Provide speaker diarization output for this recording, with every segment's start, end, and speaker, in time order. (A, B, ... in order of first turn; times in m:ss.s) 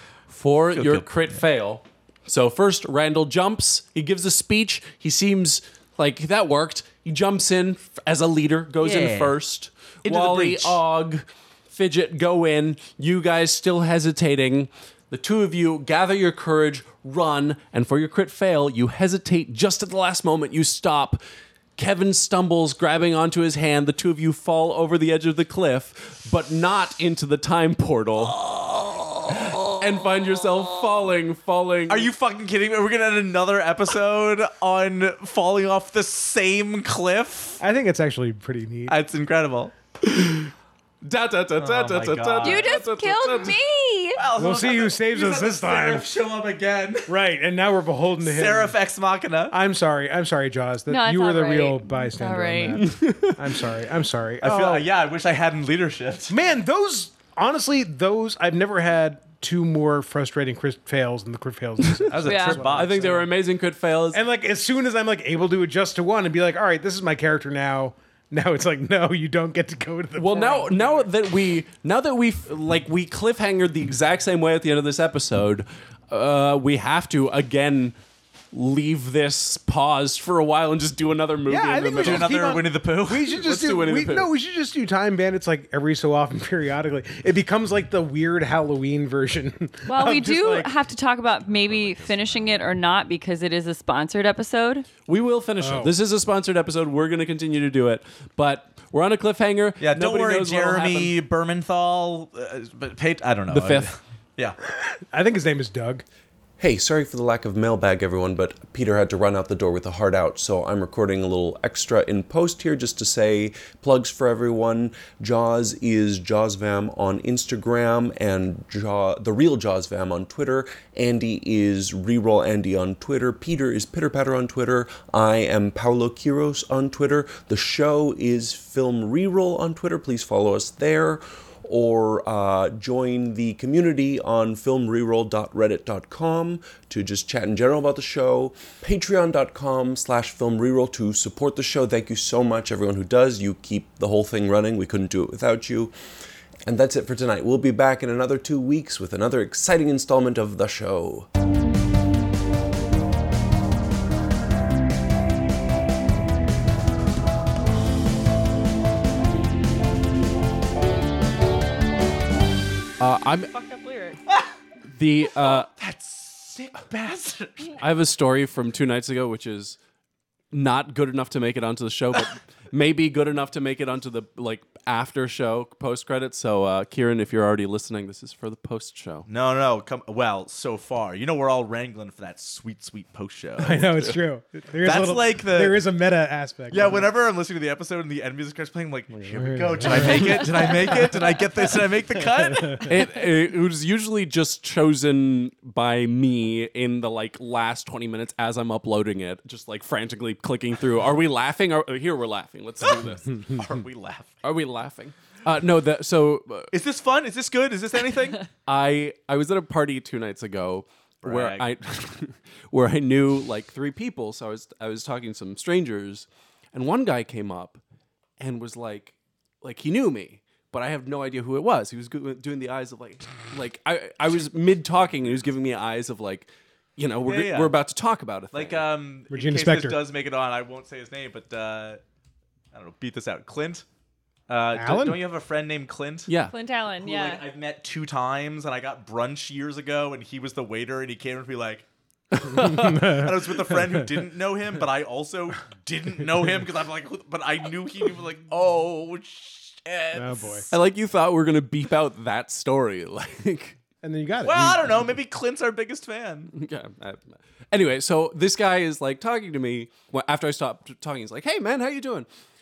0:00.3-0:21.2 A
0:00.7-0:01.0 B
0:08.8-0:09.4 B
0:10.0-0:10.8 B
0:21.8-0:28.4 A
0:29.3-0:32.1 A
0:31.9-0:37.6 B
0:37.6-0:39.0 C
0:38.9-0:40.4 B
0:41.0-0:43.6 A
0:41.6-0:42.8 B
0:42.4-0:44.2 D
0:44.1-0:47.2 B
0:44.4-0:46.1 C
0:47.1-0:48.7 C
0:48.2-0:49.6 B
0:49.5-0:54.8 C
0:50.9-0:52.8 D
0:52.8-0:53.4 A
0:54.4-0:56.4 B
0:56.3-1:03.3 C
1:02.0-1:03.3 B
1:02.2-1:02.6 D
1:02.6-1:04.2 A
1:04.1-1:11.1 C
1:10.2-1:17.9 A
1:18.5-1:22.4 A
1:21.5-1:30.7 C
1:22.0-1:23.4 B
1:23.3-1:24.3 A
1:29.8-1:34.9 D
1:31.4-1:32.7 B
1:35.0-1:41.2 A
1:35.6-1:36.0 C
1:39.8-1:44.6 B
1:43.5-1:43.9 A
1:44.9-1:46.0 C
1:46.6-2:25.9 E
2:26.6-2:31.3 E
2:43.0-2:43.5 A
2:43.5-2:44.2 D
2:44.9-2:45.7 A
2:45.3-2:47.8 B
2:47.8-2:49.8 A
2:50.5-2:59.3 A
2:59.3-3:04.1 B
3:03.6-3:07.0 C
3:04.8-3:05.8 B
3:06.7-3:13.0 B
3:09.2-3:10.6 C
3:09.8-3:10.3 A
3:12.8-3:23.4 A
3:22.8-3:24.4 B
3:24.4-3:26.7 A
3:26.7-3:28.4 B
3:28.6-3:37.8 A
3:31.2-3:31.7 B
3:38.4-3:48.9 A
3:47.3-3:47.7 B
3:48.5-3:52.0 B
3:49.3-3:50.0 C
3:52.7-3:53.8 B
3:54.5-3:56.3 B
3:54.7-3:55.2 C
3:56.3-3:56.5 A
3:56.5-3:57.4 D
3:57.0-4:01.8 B
4:02.3-4:03.0 A
4:02.5-4:04.2 C
4:02.5-4:10.6 B
4:10.1-4:10.7 C
4:10.7-4:13.8 A
4:14.0-4:15.1 C
4:14.4-4:16.5 B
4:16.5-4:22.3 A